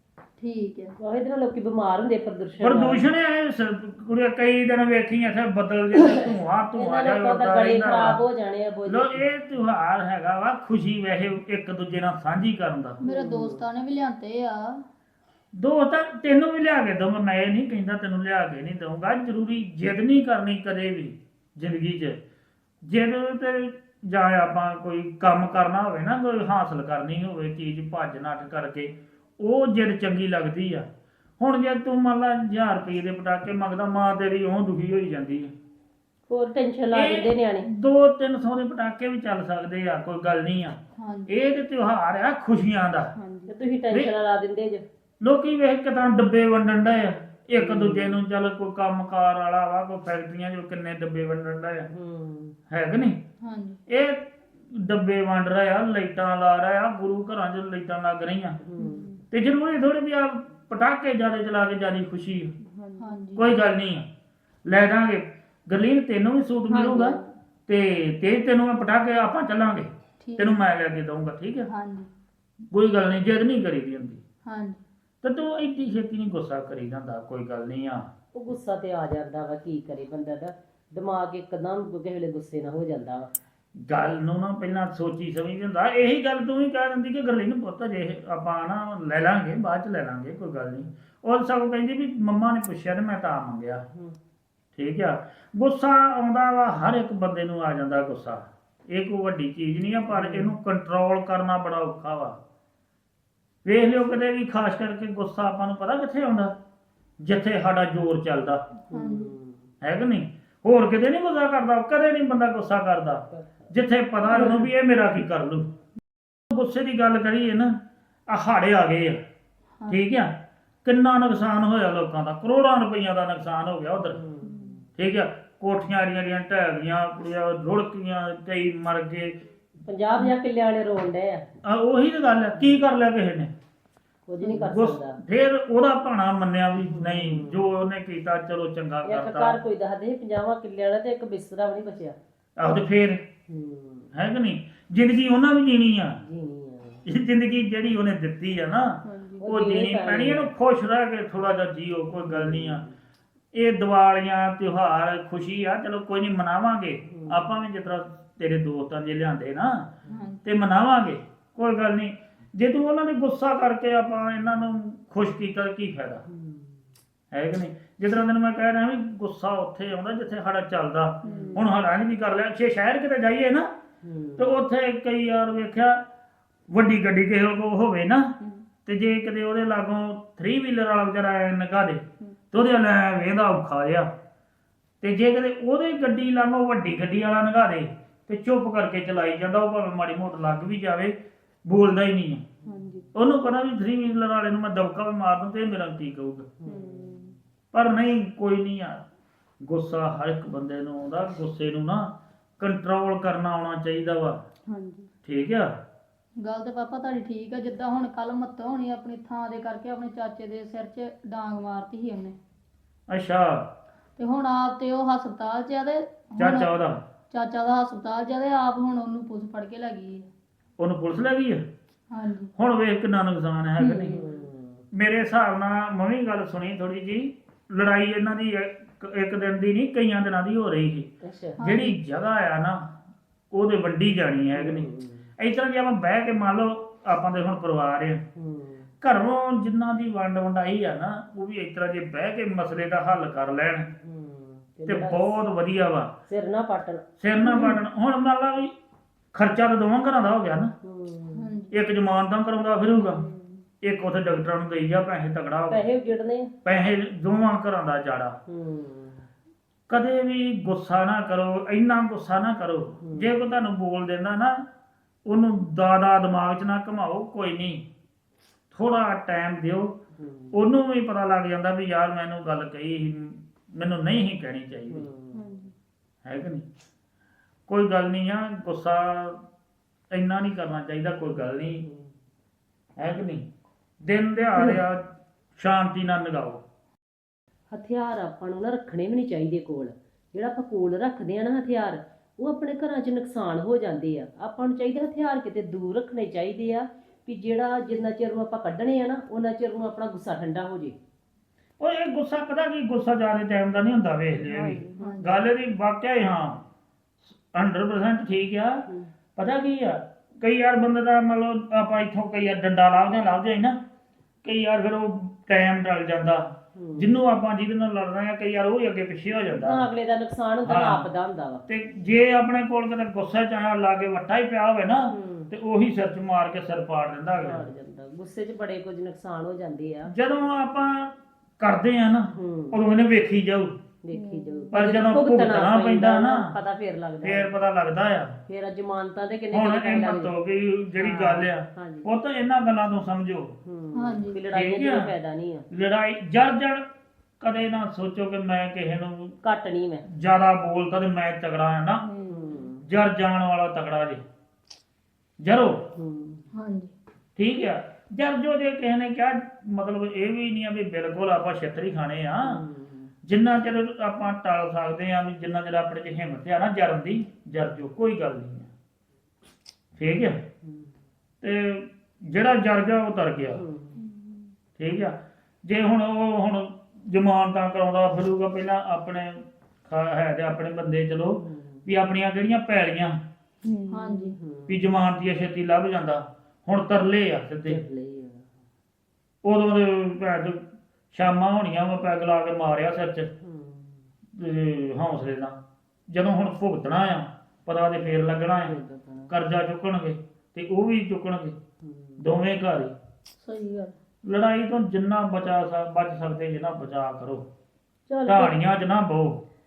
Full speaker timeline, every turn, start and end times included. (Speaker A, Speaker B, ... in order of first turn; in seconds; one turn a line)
Speaker A: 0.4-0.9
Speaker B: 1.0-3.1
Speaker C: 2.6-8.2
Speaker B: 6.0-9.2
Speaker C: 8.9-13.0
Speaker B: 13.0-13.6
Speaker A: 13.0-14.7
Speaker C: 15.6-22.2
Speaker C: 22.8-30.9
Speaker C: 31.4-35.5
Speaker B: 36.3-37.7
Speaker C: 36.9-43.1
Speaker A: 41.0-41.3
Speaker D: 43.1-43.5
Speaker B: 43.5-44.8
Speaker C: 45.2-51.9
Speaker B: 47.6-48.2
Speaker B: 51.9-52.5
Speaker C: 52.7-53.2
Speaker A: 53.4-53.8
Speaker C: 53.9-58.6
Speaker B: 58.6-59.1
Speaker D: 58.9-59.2
Speaker C: 59.3-62.5
Speaker D: 62.6-63.2
Speaker A: 63.0-63.4
Speaker C: 63.4-64.1
Speaker C: 64.7-71.7
Speaker D: 66.7-67.3
Speaker A: 70.2-70.6
Speaker A: 71.7-72.1
Speaker C: 72.7-74.2
Speaker A: 74.5-74.8
Speaker C: 75.2-78.1
Speaker B: 78.3-83.3
Speaker C: 83.8-93.8
Speaker C: 94.8-102.4
Speaker B: 100.1-100.5
Speaker C: 103.7-106.5
Speaker C: 107.2-108.6
Speaker B: 108.9-109.7
Speaker A: 108.9-109.3
Speaker C: 109.8-115.7
Speaker B: 114.3-114.7
Speaker C: 116.5-117.8
Speaker C: 118.3-119.2
Speaker C: 119.9-124.2
Speaker B: 124.0-124.8
Speaker C: 125.0-129.3
Speaker B: 129.8-131.4
Speaker C: 131.6-133.5
Speaker B: 134.3-135.2
Speaker C: 134.5-139.6
Speaker B: 136.8-137.6
Speaker B: 139.1-142.2
Speaker C: 142.6-143.2
Speaker B: 143.5-144.1
Speaker C: 144.1-146.2
Speaker B: 146.2-147.0
Speaker C: 147.1-152.8
Speaker D: 149.1-149.4
Speaker B: 149.4-150.5
Speaker B: 152.3-152.9
Speaker C: 153.5-159.9
Speaker B: 157.1-157.4
Speaker A: 160.1-160.4
Speaker C: 160.4-166.2
Speaker B: 166.3-166.8
Speaker C: 167.3-173.7
Speaker B: 171.2-171.7
Speaker D: 171.3-171.6
Speaker B: 174.0-174.5
Speaker C: 174.4-176.0
Speaker C: 176.7-178.3
Speaker C: 178.9-184.1
Speaker C: 185.0-192.5
Speaker D: 192.6-193.1
Speaker C: 193.1-196.5
Speaker B: 196.6-197.3
Speaker D: 196.7-197.3
Speaker C: 197.7-199.1
Speaker C: 199.6-204.4
Speaker D: 204.7-205.1
Speaker C: 205.2-205.7
Speaker A: 206.4-212.4
Speaker C: 213.1-213.7
Speaker A: 214.2-216.7
Speaker C: 216.4-217.0
Speaker A: 217.3-220.3
Speaker C: 220.8-221.6
Speaker A: 222.1-222.5
Speaker C: 222.6-224.2
Speaker A: 223.8-224.2
Speaker B: 223.9-224.8
Speaker C: 224.9-231.1
Speaker B: 231.2-231.6
Speaker A: 231.6-232.0
Speaker C: 231.6-232.9
Speaker C: 233.5-234.9
Speaker B: 234.6-235.3
Speaker C: 235.4-238.2
Speaker B: 238.4-238.9
Speaker C: 239.0-243.9
Speaker B: 244.0-245.4
Speaker C: 244.9-246.1
Speaker B: 246.3-247.0
Speaker C: 247.2-248.7
Speaker C: 249.3-250.7
Speaker B: 250.8-251.5
Speaker A: 251.3-251.7
Speaker C: 251.7-253.2
Speaker D: 252.9-253.6
Speaker C: 253.8-255.9
Speaker B: 255.7-256.5
Speaker C: 256.6-258.4
Speaker B: 258.5-259.2
Speaker C: 259.9-264.6
Speaker B: 263.0-263.3
Speaker C: 265.3-267.8
Speaker C: 268.7-270.0
Speaker B: 270.2-270.6
Speaker C: 270.5-275.1
Speaker B: 274.9-275.4
Speaker A: 275.4-275.7
Speaker C: 276.2-276.6
Speaker C: 277.7-279.4
Speaker C: 280.1-281.9
Speaker B: 281.9-282.1
Speaker C: 283.0-283.4
Speaker C: 284.0-286.6
Speaker B: 287.7-301.0
Speaker C: 301.8-306.6
Speaker D: 304.4-305.1
Speaker A: 305.0-305.3
Speaker C: 307.3-308.8
Speaker C: 309.4-313.8
Speaker C: 314.4-319.9
Speaker B: 316.8-317.2
Speaker B: 319.5-321.6
Speaker C: 320.6-321.1
Speaker C: 321.7-327.7
Speaker B: 325.1-325.5
Speaker B: 327.4-330.1
Speaker C: 330.1-333.8
Speaker B: 332.3-332.8
Speaker B: 334.0-337.6
Speaker D: 334.1-334.7
Speaker C: 334.7-336.5
Speaker C: 337.2-338.4
Speaker B: 338.5-340.3
Speaker C: 339.5-343.6
Speaker B: 341.0-342.1
Speaker B: 343.6-345.7
Speaker A: 343.9-344.4
Speaker C: 344.5-345.1
Speaker C: 345.7-346.8
Speaker C: 347.4-349.4
Speaker B: 349.4-350.1
Speaker C: 350.1-352.1
Speaker D: 352.0-352.6
Speaker B: 352.3-352.8
Speaker C: 352.8-354.2
Speaker C: 355.4-355.9
Speaker B: 355.9-356.4
Speaker A: 356.5-356.9
Speaker C: 357.4-362.6
Speaker B: 362.4-363.1
Speaker C: 363.2-368.7
Speaker C: 370.0-370.4
Speaker B: 370.6-370.9
Speaker C: 371.4-373.6
Speaker B: 373.6-374.0
Speaker A: 374.1-374.4
Speaker C: 374.8-383.2
Speaker B: 381.3-381.9
Speaker D: 383.6-384.4
Speaker A: 383.9-384.4
Speaker B: 384.4-384.8
Speaker C: 384.7-387.8
Speaker B: 387.7-388.5
Speaker C: 389.4-393.3
Speaker B: 393.4-394.1
Speaker C: 394.4-395.6
Speaker C: 396.1-398.7
Speaker B: 398.6-399.3
Speaker C: 399.3-401.6
Speaker B: 401.8-402.2
Speaker C: 402.2-402.9
Speaker A: 403.4-403.9
Speaker C: 404.3-407.5
Speaker B: 408.1-408.6
Speaker C: 408.3-409.4